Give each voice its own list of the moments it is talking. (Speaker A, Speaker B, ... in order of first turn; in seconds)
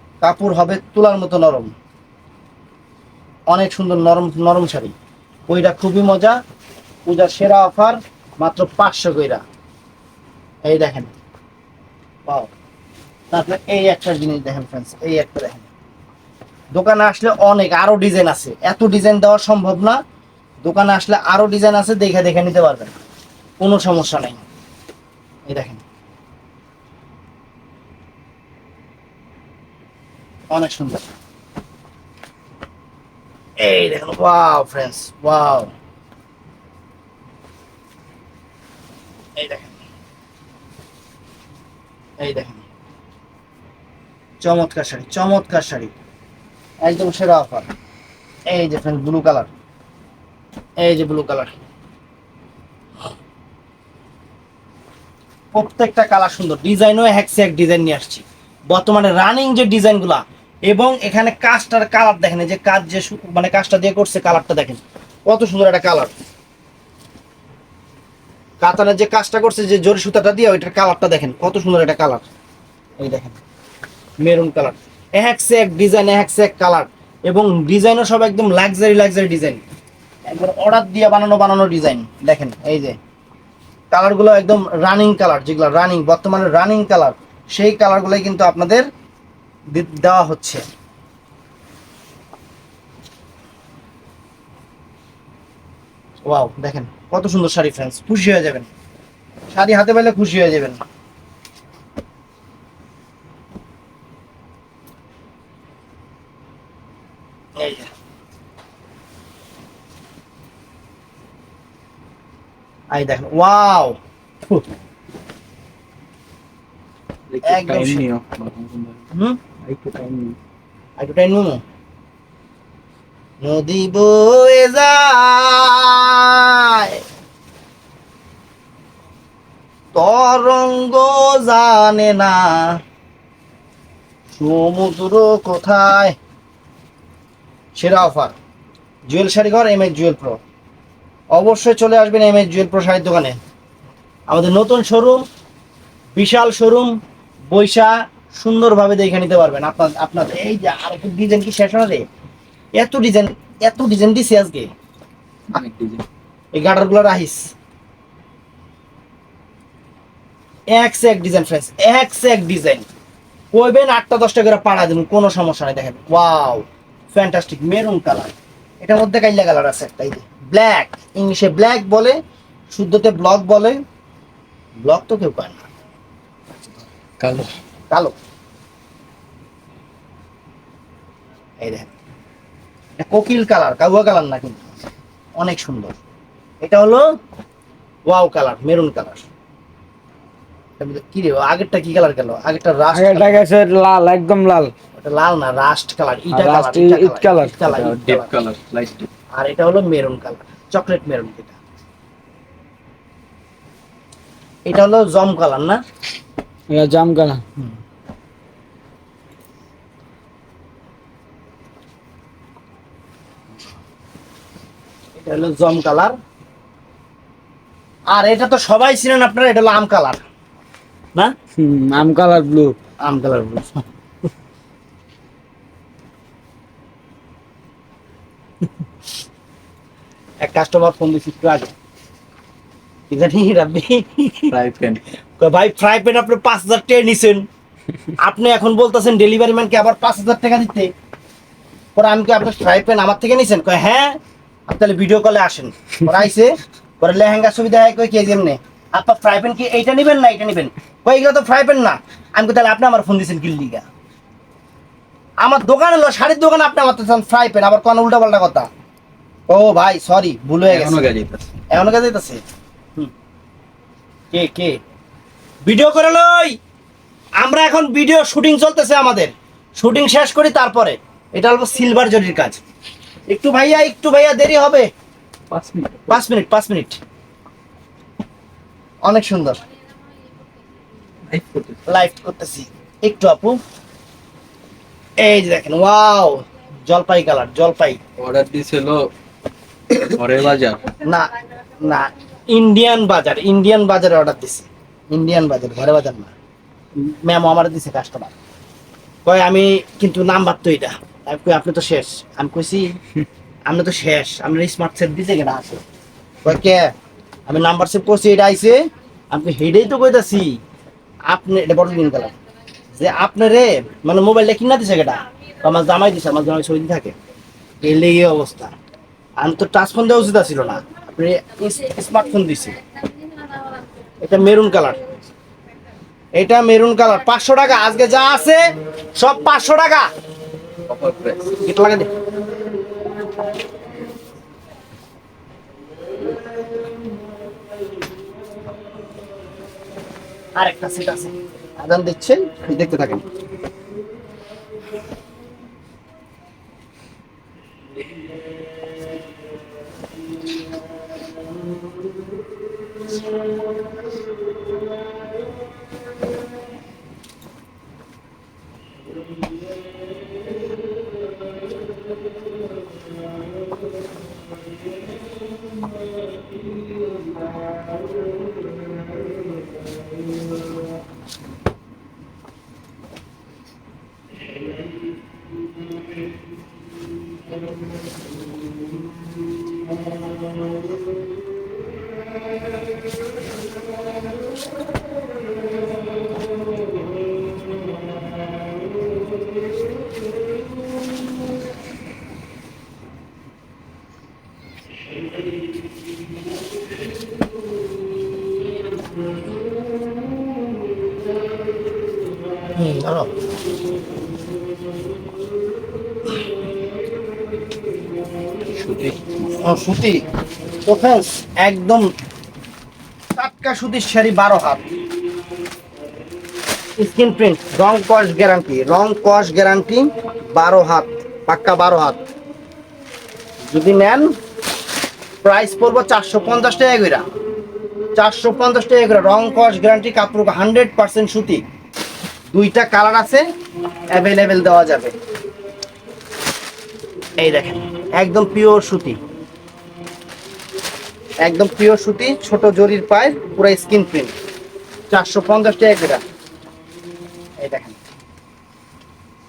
Speaker A: 0.2-1.7, 3.5-4.9, 5.5-6.4, 7.0-9.4, 10.6-11.1, 12.2-12.5, 13.3-15.7, 16.7-20.0, 20.6-22.9, 23.6-24.4, 25.5-25.8, 30.5-31.1, 33.6-35.7, 39.4-39.8, 42.2-42.6, 44.4-45.9, 46.8-47.7, 48.5-49.5, 50.8-51.5, 55.5-66.1, 68.6-72.2, 73.0-73.4, 74.2-79.6, 80.3-83.0, 83.9-88.9, 89.7-90.6, 96.2-98.7, 99.5-100.8, 107.6-107.9, 112.9-114.6, 117.4-118.0, 119.1-119.4, 121.0-121.6, 123.4-127.0, 129.9-132.8, 134.3-136.2, 137.7-138.3, 139.1-140.4, 141.3-143.4, 144.3-145.2, 146.2-147.0, 147.5-152.1, 152.8-154.7, 156.5-157.5, 160.7-162.8, 163.5-172.2, 172.7-173.8, 174.8-175.7, 181.6-181.9, 183.0-184.6, 185.4-186.0, 186.6-187.1, 188.1-189.2, 190.8-193.4, 194.9-198.3, 199.3-201.5, 204.7-205.8, 215.2-216.2, 218.1-220.2, 223.0-223.8, 230.4-231.7, 233.1-234.5, 235.4-237.5, 238.2-240.9, 241.9-253.8, 255.4-258.7, 259.5-261.1, 261.7-262.4, 264.3-264.8, 265.6-266.6, 267.4-272.6, 273.3-274.9, 276.1-277.0, 279.0-279.6, 281.9-283.6, 285.2-288.0, 291.0-296.3, 296.9-298.3, 299.2-302.9, 303.6-305.8, 306.4-306.9, 307.5-310.6, 311.3-312.3, 312.9-317.1, 317.8-318.7, 319.4-322.8, 324.2-325.0, 326.3-330.1, 331.6-332.1, 340.6-343.2, 402.7-403.3, 409.6-410.2, 410.8-412.1, 413.3-414.8, 417.0-422.2, 423.7-424.3, 425.4-427.2, 428.1-431.6, 432.5-433.5, 434.1-435.1, 437.4-439.2, 441.4-444.4, 445.1-446.2, 447.6-448.0
Speaker B: 117.3-119.0, 119.6-120.4, 155.5-156.0, 177.2-177.5, 197.6-199.1, 234.5-235.0, 260.6-261.5, 275.5-276.2, 281.3-281.8, 288.2-289.1, 289.9-290.9, 330.9-331.5, 408.6-409.4
Speaker C: 192.9-194.7, 196.3-197.6, 206.7-207.4, 221.6-222.8